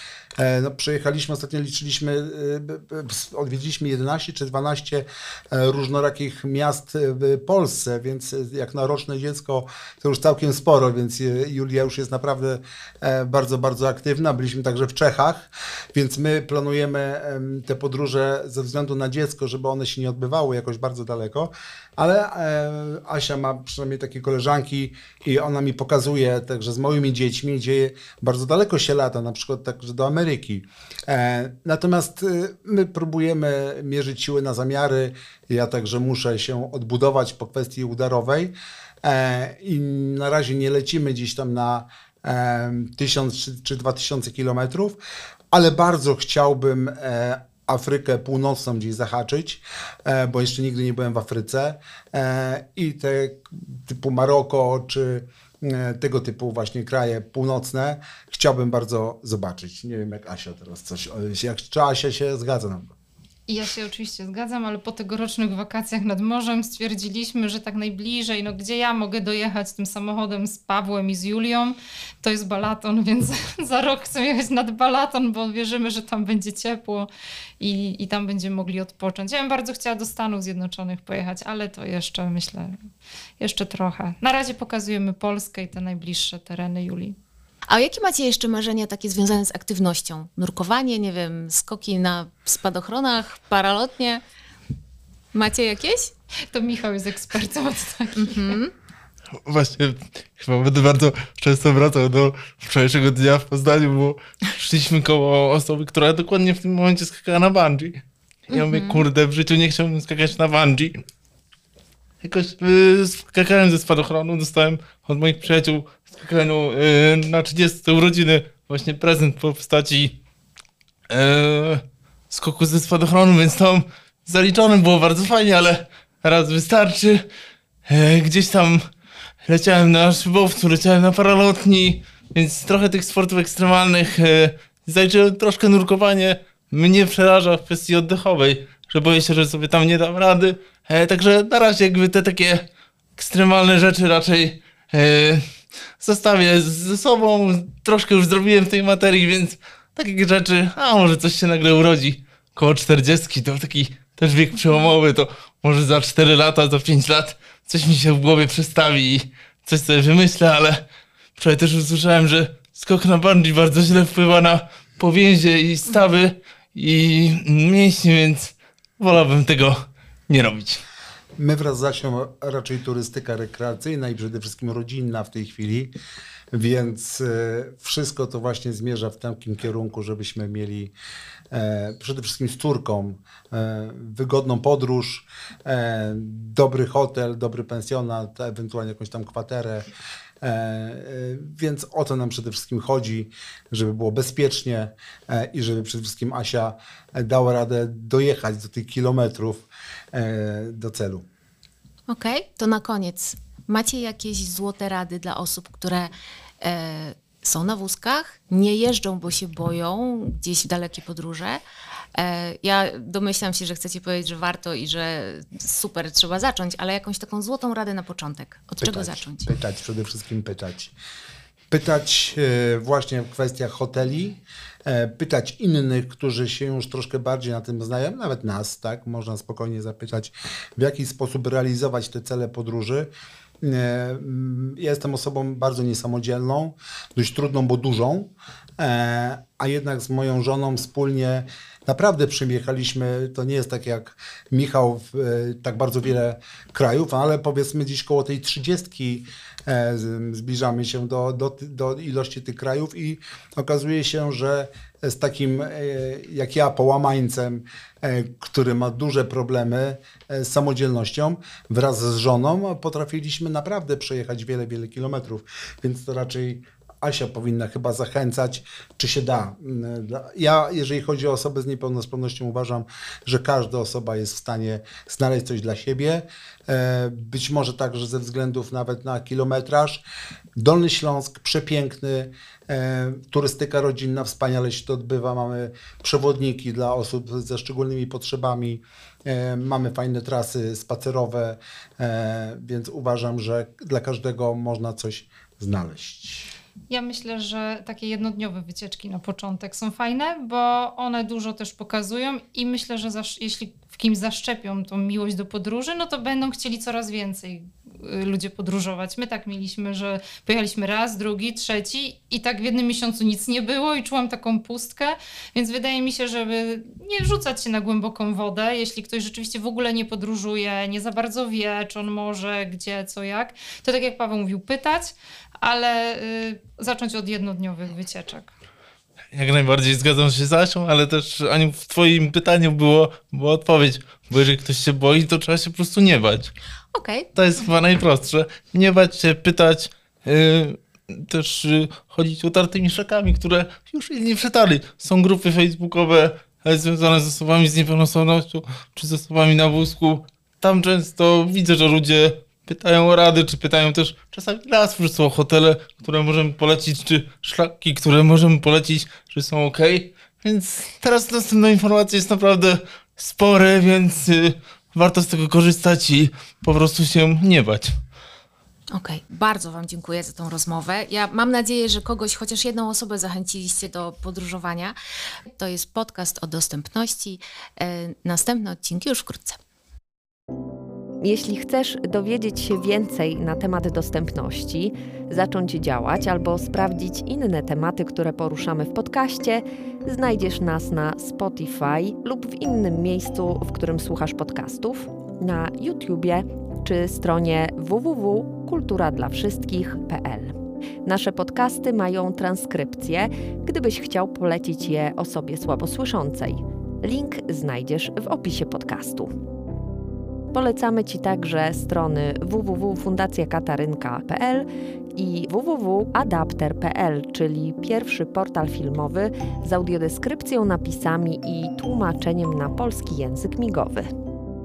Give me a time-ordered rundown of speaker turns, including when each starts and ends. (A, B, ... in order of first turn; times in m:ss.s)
0:00.4-0:45.0 A
0:45.5-1:02.9 A
1:03.5-1:17.1 B
1:17.6-1:22.8 B
1:23.4-1:27.2 B
1:27.7-1:34.2 C
1:35.3-1:36.1 C
1:36.5-1:38.6 B
1:38.2-1:38.7 C
1:39.4-1:51.0 D
1:48.5-1:49.0 C
1:52.2-2:00.2 D
2:01.1-2:07.2 D
2:07.9-2:08.8 D
2:09.4-2:25.4 D
2:26.0-2:40.8 D
2:41.4-2:50.8 D
2:51.4-2:55.9 A
2:56.5-3:00.9 A
3:01.5-3:09.9 A
3:10.4-3:21.2 A
3:22.1-3:26.1 C
3:26.6-3:31.6 C
3:32.1-3:39.5 C
3:38.8-3:40.9 A
3:41.7-4:40.0 A
4:40.6-4:56.5 A
4:56.9-5:28.5 B
5:29.3-5:36.5 D
5:36.9-5:37.3 C
5:37.3-6:07.9 D
6:08.9-6:14.9 C
6:15.5-6:19.6 C
6:21.2-6:49.3 E
6:50.5-7:04.1 E